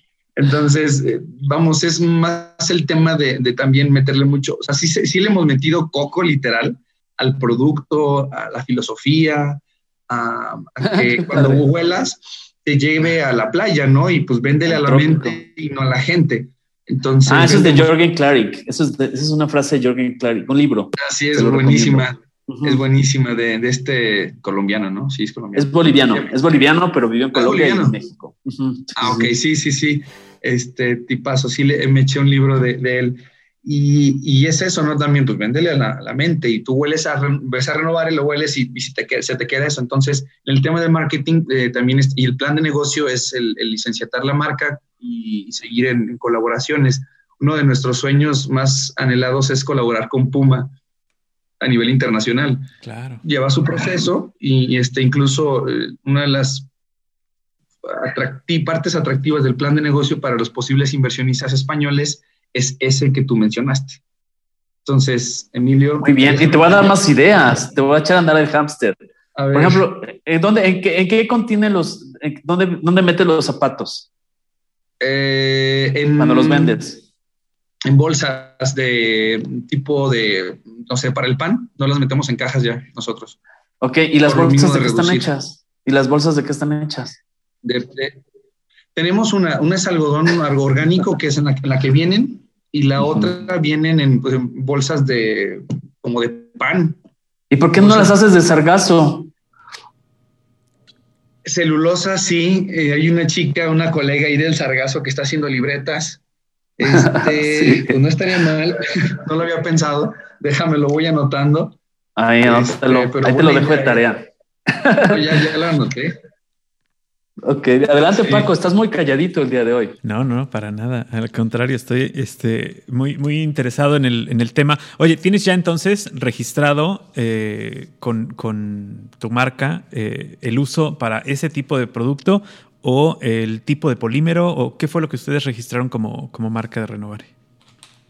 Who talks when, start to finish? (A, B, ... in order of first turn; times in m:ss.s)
0:00.4-0:17.9 A
0:10.8-0:11.6 B
0:14.7-0:15.4 B
0:17.3-0:22.8 B
0:21.0-0:26.3 A
0:25.6-0:29.3 B
0:27.3-0:28.0 A
0:29.0-0:50.7 A
0:51.6-0:52.7 A
0:52.8-0:53.2 C
0:53.2-0:56.7 A
0:57.8-1:04.0 A
1:04.8-1:06.9 A
1:06.0-1:09.0 B
1:09.4-1:09.8 A
1:09.5-1:14.1 B
1:15.0-1:16.8 A
1:16.2-1:17.0 B
1:17.9-1:23.4 A
1:23.8-1:27.2 B
1:24.2-1:25.3 A
1:27.6-1:28.2 A
1:29.0-1:37.0 A
1:37.5-1:39.3 B
1:37.8-1:38.1 A
1:41.4-1:46.2 A
1:46.8-1:51.8 A
1:46.9-1:48.0 B
1:52.2-1:55.2 B
1:52.4-1:54.1 A
1:55.0-1:56.1 A
1:57.4-2:00.0 B
1:58.1-1:58.5 A
2:00.0-2:17.3 C